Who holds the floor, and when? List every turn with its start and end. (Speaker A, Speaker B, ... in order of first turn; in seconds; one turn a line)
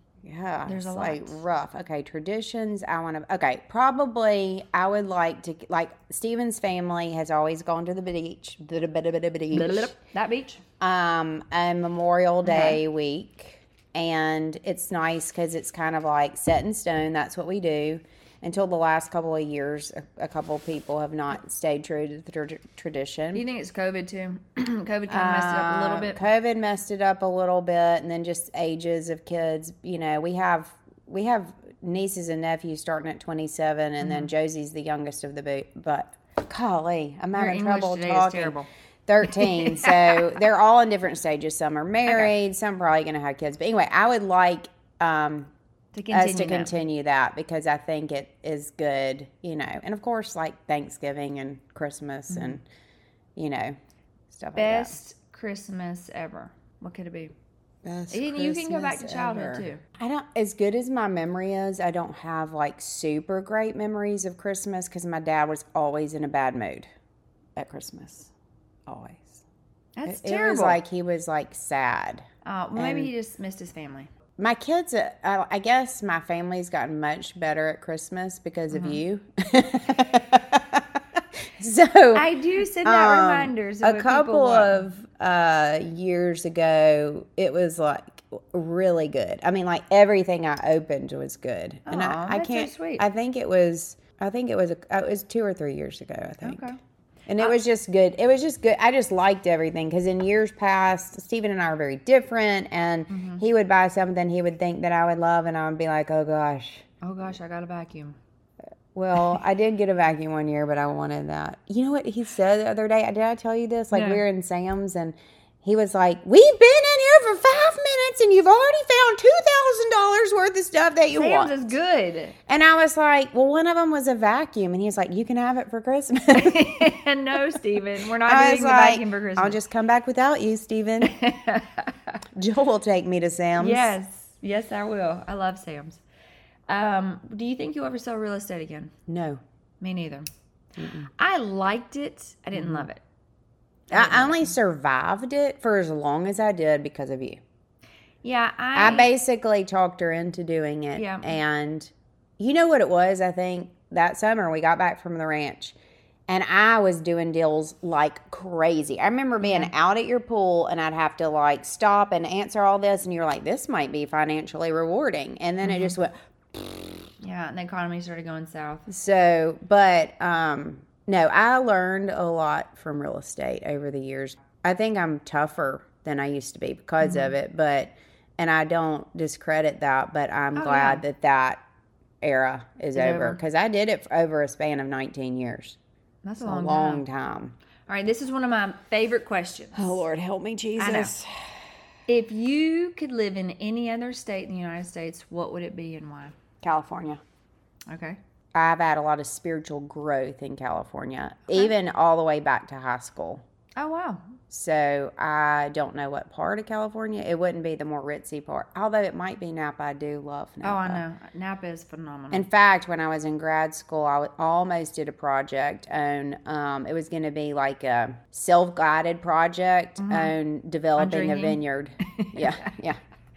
Speaker A: 0.2-9.9
Speaker B: 0.7-1.4
Speaker B: 9.5-10.6
Speaker A: 10.8-23.4
Speaker B: 12.4-12.8
Speaker B: 23.3-26.2
Speaker A: 25.1-45.5
Speaker B: 34.0-34.3
Speaker B: 37.3-38.7
Speaker B: 39.2-40.3
Speaker B: 42.1-42.3
Speaker B: 45.9-46.7
Speaker A: 46.1-52.6
Speaker B: 52.3-52.6
Speaker A: 53.4-53.8
Speaker A: 54.3-55.0
Speaker B: 54.5-57.3
Speaker A: 57.8-66.9
Speaker B: 58.1-59.8
Speaker A: 67.5-68.3
Speaker A: 68.8-69.4
Speaker B: 70.0-70.8
Speaker A: 70.0-72.2
Speaker B: 72.4-74.1
Speaker A: 72.8-73.1
Speaker A: 74.4-82.3
Speaker B: 78.7-79.0
Speaker B: 82.1-84.9
Speaker A: 82.8-96.6
Speaker B: 91.8-93.0
Speaker B: 96.4-96.8
Speaker A: 97.3-106.8
Speaker B: 103.1-103.4
Speaker B: 107.0-108.2
Speaker A: 108.9-121.6
Speaker B: 113.9-114.2
Speaker B: 121.1-122.3
Speaker A: 122.5-126.7
Speaker B: 126.3-129.6
Speaker A: 128.2-131.1
Speaker B: 131.0-132.2
Speaker A: 132.3-133.9
Speaker B: 133.6-136.0
Speaker B: 136.7-138.9
Speaker A: 139.1-139.4
Speaker B: 139.8-140.3
Speaker A: 140.8-141.1
Speaker B: 141.2-143.0
Speaker A: 142.5-142.9
Speaker B: 143.9-144.5
Speaker A: 143.9-147.4
Speaker B: 148.2-149.1
Speaker A: 148.7-155.8
Speaker B: 150.9-151.3
Speaker A: 156.3-167.1
Speaker B: 159.4-159.7
Speaker B: 165.6-165.9
Speaker B: 167.2-168.9
Speaker A: 168.9-181.6
Speaker B: 177.0-177.3
Speaker B: 180.6-181.0
Speaker A: 182.2-185.8
Speaker B: 182.9-183.4
Speaker B: 186.2-187.0
Speaker A: 186.4-187.5
Speaker B: 187.9-190.0
Speaker A: 189.7-191.3
Speaker B: 190.8-191.1
Speaker B: 192.1-196.3
Speaker A: 196.6-197.2
Speaker B: 197.9-198.2
Speaker A: 198.5-203.4
Speaker B: 203.8-204.2
Speaker A: 204.5-211.0
Speaker B: 210.6-212.5
Speaker A: 212.3-223.0
Speaker B: 220.0-220.3
Speaker B: 220.9-222.7